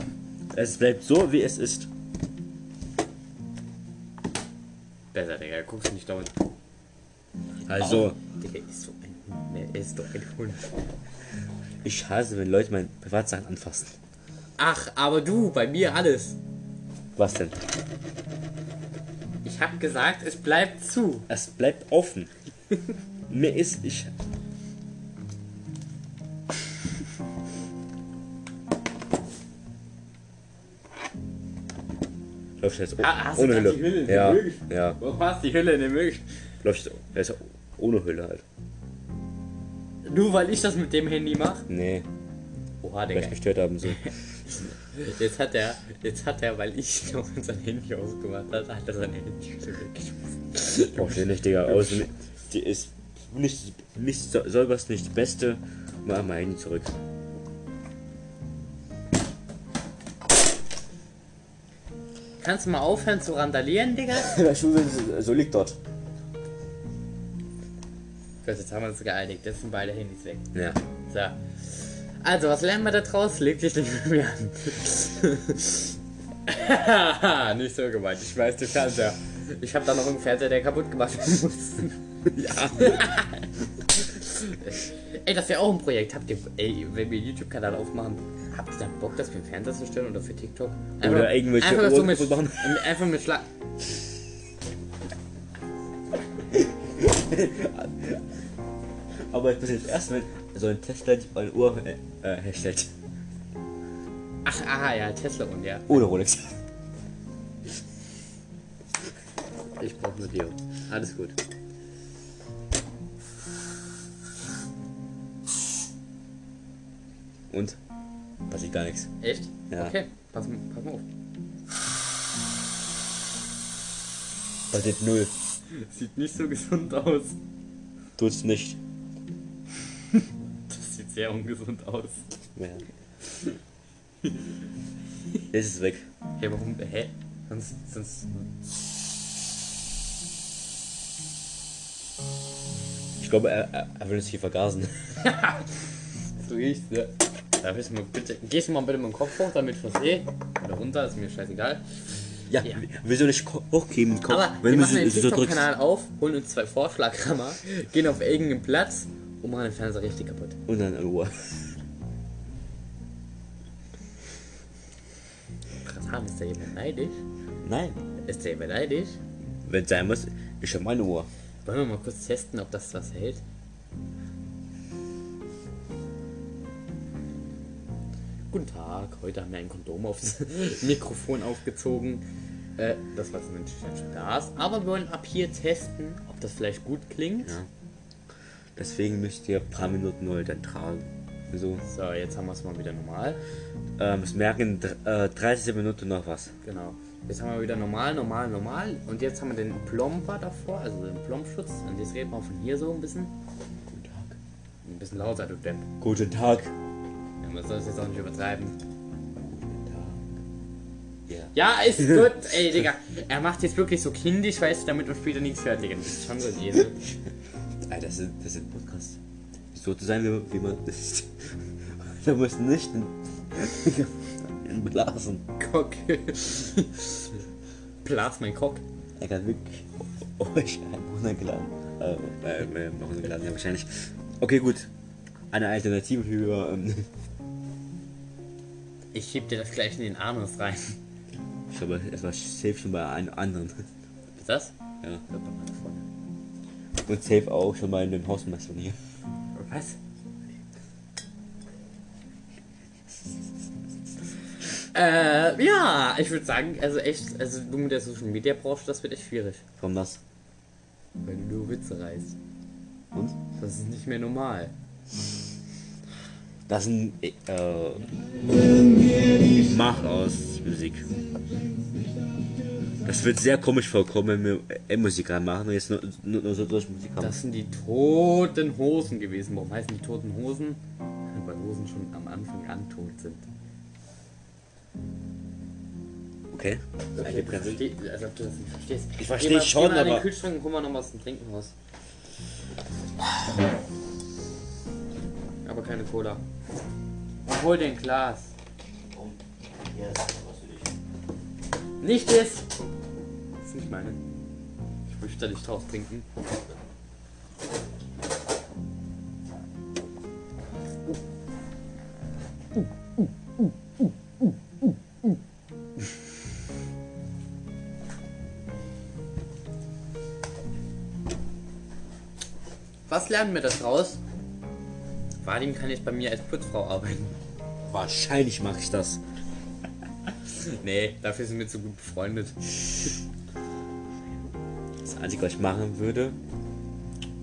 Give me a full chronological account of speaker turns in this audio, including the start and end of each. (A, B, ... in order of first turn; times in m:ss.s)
0:00.5-0:01.9 A
0:05.1-0:06.3 B
0:07.7-0:08.2 A
0:07.7-0:10.8 B
0:11.8-0:14.0 A
0:14.6-0:16.4 B
0:17.2-0:17.6 A
0:19.4-0:21.3 B
0:21.3-0:22.3 A
0:23.3-0:24.1 A
0:32.6-0:35.0 A
0:33.0-0:36.2 B
0:36.6-0:38.4 A
0:40.0-0:41.7 B
0:41.7-0:42.1 A
0:42.8-0:52.0 B
0:43.1-0:44.2 A
0:50.9-0:57.0 A
1:02.4-1:04.3 B
1:04.1-1:05.8 A
1:08.4-1:10.5 B
1:10.5-1:10.8 A
1:11.1-1:22.0 B
1:22.3-1:23.2 A
1:22.7-1:33.5 B
1:31.0-1:33.0 A
1:36.5-1:38.2 A
1:39.2-1:42.9 A
1:44.4-1:46.1 B
1:45.9-1:46.6 A
1:49.8-1:51.4 B
1:57.5-1:57.8 A
1:58.5-1:59.1 A
1:59.2-2:01.0 B
2:04.7-2:05.3 A
2:05.7-2:07.4 B
2:08.2-2:08.8 A
2:10.1-2:12.3 B
2:12.6-2:12.8 A
2:15.5-2:16.1 A
2:16.4-2:18.5 B
2:23.2-2:25.0 A
2:25.2-2:25.7 B
2:26.4-2:31.8 B
2:32.5-2:35.7 A
2:34.3-2:40.6 B
2:40.7-2:41.7 A
2:45.8-2:47.2 B
2:47.6-2:48.0 A
2:48.2-2:49.2 B
2:49.6-2:51.3 A
2:51.7-2:53.4 B
2:58.5-3:02.2 B
3:02.8-3:07.6 B
3:08.8-3:11.8 A
3:11.8-3:13.4 B
3:14.0-3:16.5 A
3:16.6-3:23.3 B
3:23.9-3:24.4 A
3:24.8-3:25.9 B
3:26.0-3:26.7 A
3:27.4-3:28.8 B
3:29.5-3:30.2 A
3:31.3-3:32.3 A
3:31.5-3:37.0 B
3:37.8-3:39.2 A
3:39.7-3:45.4 A
3:45.6-3:47.4 B
3:48.0-3:48.8 B
3:49.2-3:54.9 A
3:55.5-3:57.1 A
3:59.1-4:01.0 B
4:01.7-4:03.9 A
4:04.4-4:04.7 B
4:05.3-4:06.1 B
4:07.0-4:09.0 A
4:09.6-4:10.0 B
4:14.9-4:19.6 B
4:19.8-4:20.2 A
4:21.2-4:22.4 B
4:23.6-4:24.7 B
4:26.7-4:28.1 A
4:29.2-4:31.1 A
4:33.0-4:37.4 A
4:37.2-4:40.8 B
4:41.3-4:43.5 B
4:46.5-4:47.8 A
4:47.2-4:51.7 B
4:49.2-4:50.3 A
4:55.6-4:56.4 B
4:57.5-4:58.5 B
4:59.1-5:00.9 A
5:02.0-5:02.7 B
5:03.6-5:04.2 B
5:05.1-5:06.3 B
5:23.1-5:24.2 B
5:25.4-5:27.4 B
5:27.9-5:29.2 A
5:30.6-5:33.2 B
5:35.0-5:36.4 A